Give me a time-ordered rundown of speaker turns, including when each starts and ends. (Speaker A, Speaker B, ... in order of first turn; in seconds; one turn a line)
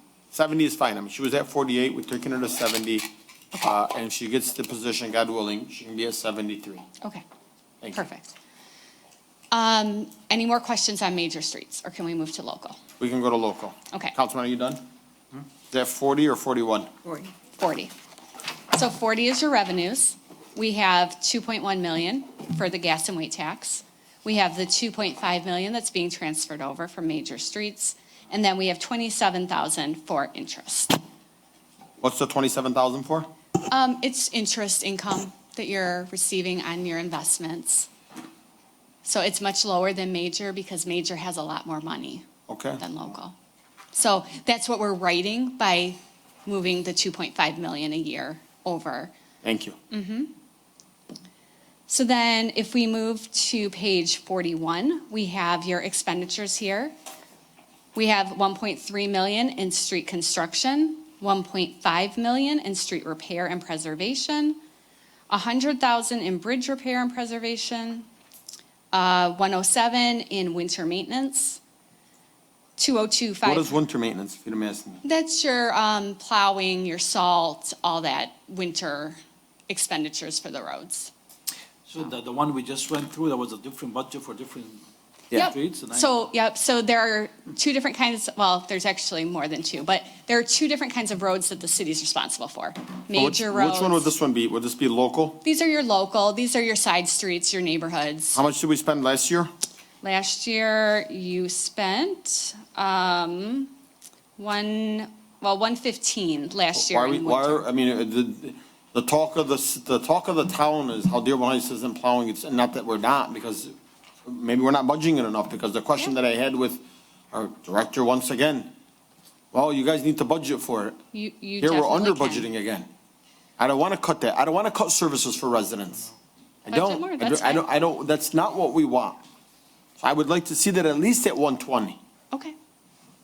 Speaker A: 0.3-6.8
Speaker B: 7.9-8.3
Speaker B: 9.5-12.8
Speaker A: 13.0-14.8
Speaker A: 15.7-16.9
Speaker B: 17.0-17.9
Speaker B: 18.7-31.0
Speaker A: 32.0-33.3
Speaker B: 33.7-37.9
Speaker B: 39.0-42.2
Speaker A: 42.5-42.8
Speaker B: 42.8-43.3
Speaker B: 43.9-49.1
Speaker A: 49.4-49.8
Speaker B: 49.9-50.3
Speaker B: 51.9-56.9
Speaker B: 57.9-64.6
Speaker B: 65.3-68.1
Speaker B: 68.9-71.6
Speaker B: 72.8-73.7
Speaker A: 73.4-75.0
Speaker B: 75.0-81.1
Speaker C: 81.8-86.2
Speaker B: 85.3-94.1
Speaker A: 93.1-95.4
Speaker B: 95.4-98.4
Speaker A: 98.3-99.5
Speaker B: 100.0-103.7
Speaker B: 104.4-107.6
Speaker A: 106.7-113.7
Speaker A: 114.2-118.7
Speaker A: 119.5-121.0
Speaker B: 121.1-122.5
Speaker A: 121.6-122.9
Speaker A: 123.6-126.1
Speaker A: 126.6-129.2
Speaker B: 126.7-127.7
Speaker A: 130.0-132.0